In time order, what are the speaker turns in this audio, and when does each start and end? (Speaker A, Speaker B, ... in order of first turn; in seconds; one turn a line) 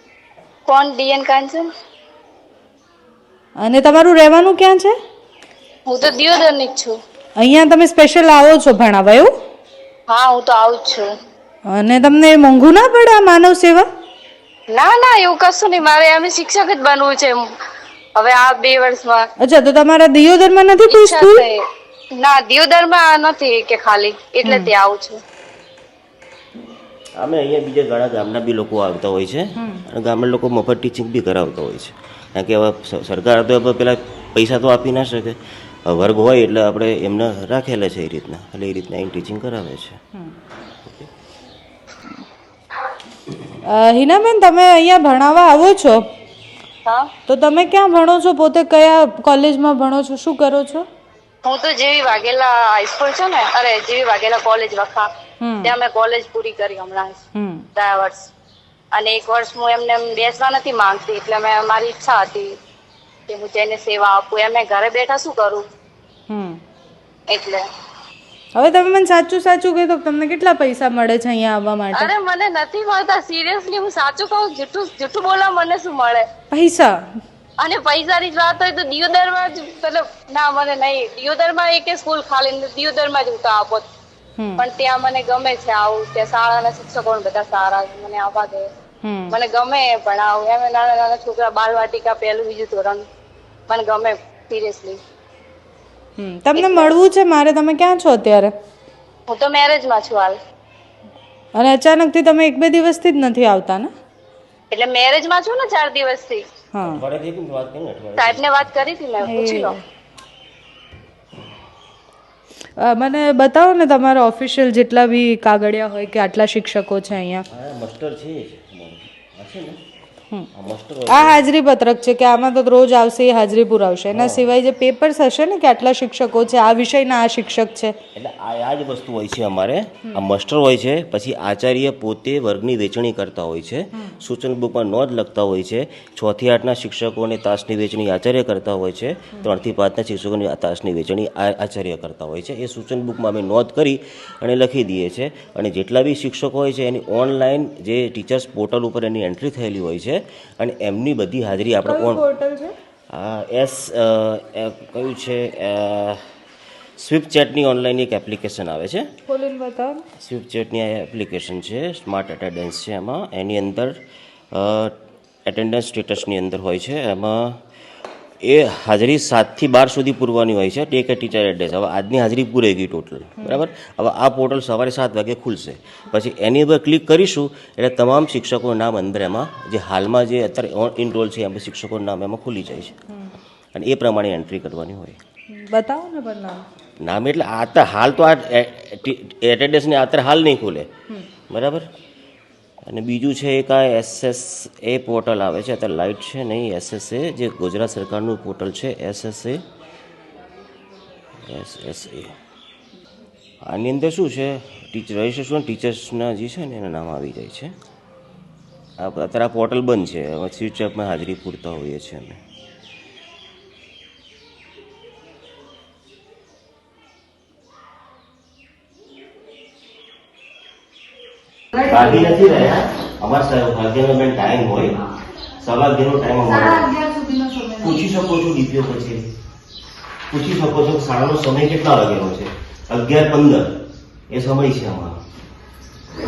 Speaker A: 0.7-1.7
Speaker B: 3.6-5.0
Speaker A: 5.9-7.0
Speaker B: 7.4-9.3
Speaker A: 10.1-11.1
Speaker B: 11.7-13.9
Speaker A: 14.7-17.4
Speaker A: 18.2-19.3
Speaker B: 19.4-21.5
Speaker A: 20.9-21.6
Speaker A: 22.2-25.2
Speaker B: 24.4-24.7
Speaker C: 27.2-40.0
Speaker B: 29.6-29.8
Speaker B: 43.7-46.1
Speaker B: 47.3-50.9
Speaker A: 51.5-55.1
Speaker B: 55.4-55.7
Speaker A: 55.6-57.2
Speaker B: 57.4-57.7
Speaker A: 57.8-58.3
Speaker A: 59.0-62.5
Speaker A: 63.3-65.6
Speaker B: 66.3-66.6
Speaker A: 67.3-67.7
Speaker B: 68.6-72.1
Speaker A: 71.9-76.2
Speaker B: 76.5-77.0
Speaker A: 77.6-83.9
Speaker A: 84.6-88.7
Speaker B: 89.0-89.4
Speaker A: 89.3-93.0
Speaker A: 93.7-95.0
Speaker B: 96.2-98.5
Speaker A: 96.5-97.0
Speaker A: 99.3-100.4
Speaker B: 101.5-103.9
Speaker A: 104.7-106.4
Speaker B: 106.7-107.0
Speaker C: 106.8-108.7
Speaker A: 108.2-109.8
Speaker B: 109.2-109.8
Speaker B: 112.8-117.5
Speaker C: 117.5-119.8
Speaker C: 120.5-121.4
Speaker B: 121.1-128.0
Speaker C: 124.1-124.5
Speaker C: 128.2-152.2
Speaker B: 151.8-152.7
Speaker C: 153.1-156.2
Speaker C: 157.0-159.1
Speaker B: 159.3-160.1
Speaker C: 160.2-164.0
Speaker C: 164.5-164.9
Speaker C: 165.5-167.6
Speaker C: 168.4-182.9
Speaker C: 183.8-185.2
Speaker B: 185.5-186.7
Speaker C: 187.0-190.9
Speaker C: 191.5-191.9
Speaker C: 192.8-199.6
Speaker C: 201.5-202.3
Speaker C: 203.7-207.7
Speaker C: 209.0-212.4
Speaker C: 221.8-225.0
Speaker C: 225.6-226.9
Speaker B: 226.5-227.9
Speaker C: 227.8-229.2
Speaker C: 230.3-233.7
Speaker C: 234.3-235.2